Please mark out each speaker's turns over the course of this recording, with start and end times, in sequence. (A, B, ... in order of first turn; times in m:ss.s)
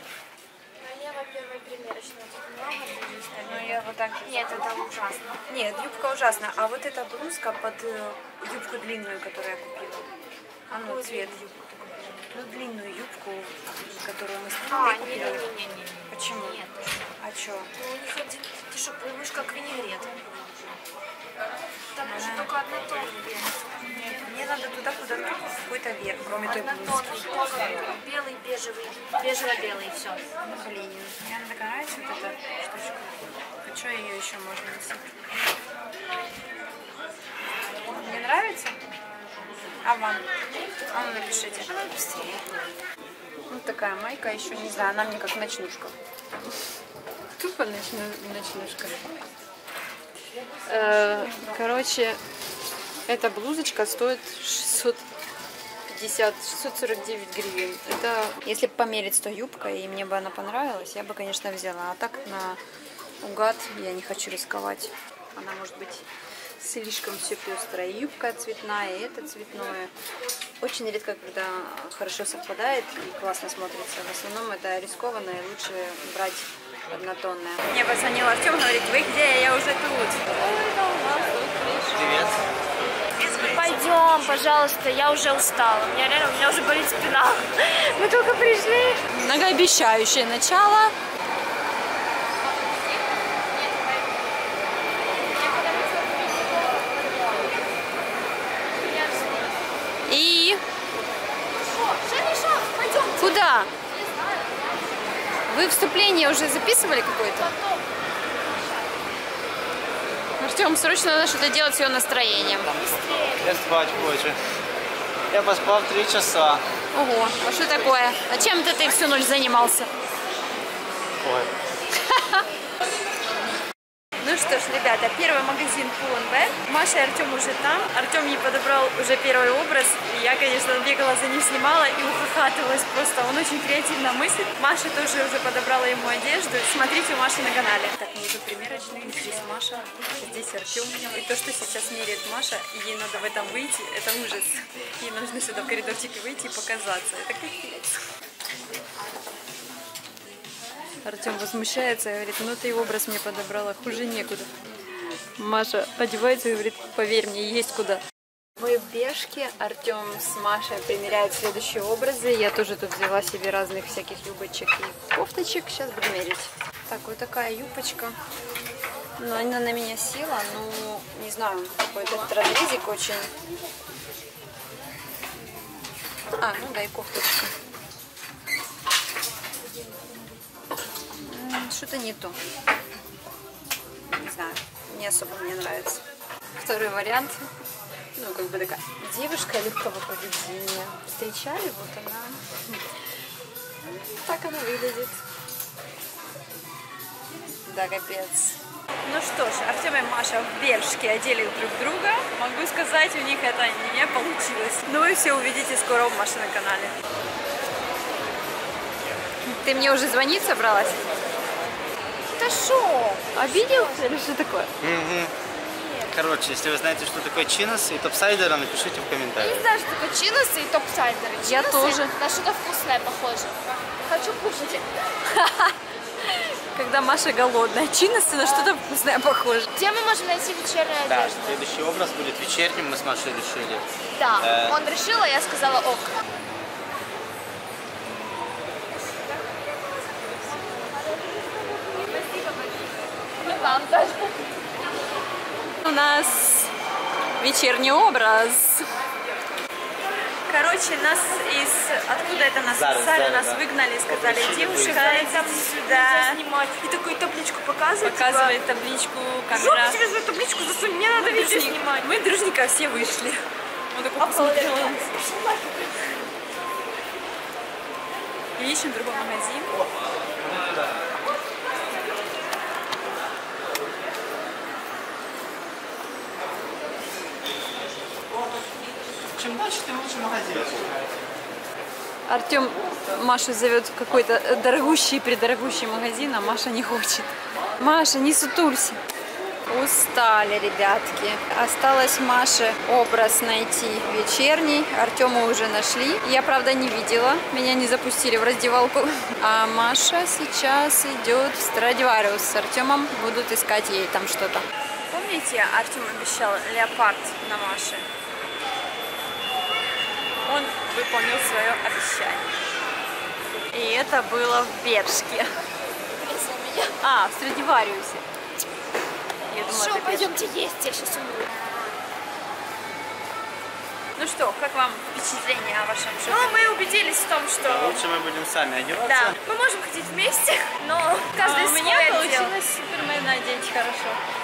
0:00.8-0:05.3 A
0:03.4-0:04.8 B
0:05.5-0:10.1 B
0:10.7-0:12.3 A
0:10.7-0:11.4 B
0:12.3-0:15.5 B
0:14.6-0:17.1 A
0:16.1-0:16.6 B
0:17.2-0:17.7 B
0:17.8-0:20.8 A
0:22.0-0:24.4 A
0:22.0-0:22.5 B
0:24.0-0:27.1 B
0:26.4-0:30.2 A
0:30.4-0:35.1 B
0:37.9-0:38.8 B
0:39.8-0:40.2 B
0:40.9-0:42.4 B
0:43.5-0:45.9 B
0:47.4-0:49.1 B
0:50.6-0:52.2 B
0:53.1-0:55.0 B
0:55.9-1:02.6 B
1:03.2-1:06.0 B
1:06.6-1:09.9 B
1:10.6-1:22.2 B
1:21.9-1:22.4 C
1:23.2-1:23.9 B
1:23.3-1:28.1 A
1:28.0-1:30.9 B
1:28.7-1:28.9 A
1:32.4-1:34.6 A
1:35.2-1:37.9 A
1:38.7-1:39.6 A
1:40.1-1:40.6 B
1:41.5-1:45.4 A
1:43.2-1:43.7 B
1:45.5-1:47.5 B
1:47.2-1:47.9 A
1:48.5-1:48.9 A
1:50.4-1:52.7 B
1:52.6-1:53.5 A
1:52.8-1:54.4 C
1:55.3-1:56.6 C
1:56.9-1:59.9 B
2:01.2-2:01.5 C
2:02.1-2:02.4 B
2:04.2-2:28.0 B
2:31.0-2:34.5 B
2:35.4-2:38.0 B
2:38.6-2:48.2 B
2:49.2-2:53.3 B
2:56.4-2:57.5 B
3:01.2-3:02.4 B
3:04.1-3:06.0 B
3:06.6-3:07.4 B
3:08.2-3:12.8 B
3:13.8-3:15.2 B
3:17.6-3:26.9 B
3:29.4-3:31.2 B
3:32.3-3:34.2 A
3:33.4-3:34.7 B
3:34.8-3:35.3 C
3:35.6-3:36.1 A
3:36.1-3:39.6 C
3:39.4-3:44.9 A
3:41.4-3:42.1 B
3:45.2-3:49.7 B
3:48.5-3:48.7 A
3:49.8-3:51.6 A
3:51.0-3:53.9 C
3:54.1-3:56.2 A
3:54.4-3:54.8 C
4:00.2-4:02.9 A
4:03.4-4:04.9 A
4:05.8-4:06.7 B
4:07.4-4:08.9 B
4:10.5-4:16.4 B
4:12.7-4:15.0 C
4:14.7-4:18.6 A
4:18.0-4:23.4 B
4:19.5-4:20.1 A
4:21.1-4:22.1 A
4:23.9-4:25.1 B
4:24.2-4:26.1 A
4:28.6-4:29.8 B
4:39.4-4:41.0 C
4:42.3-4:49.0 B
4:49.7-5:08.1 B
5:10.5-5:12.4 B
5:13.7-5:15.5 B
5:16.1-5:17.0 A
5:17.0-5:18.2 B
5:19.5-5:20.4 B
5:19.5-5:21.9 A
5:24.2-5:26.6 B
5:26.2-5:28.0 A
5:27.6-5:29.4 C
5:29.0-5:32.5 A
5:31.4-5:34.2 B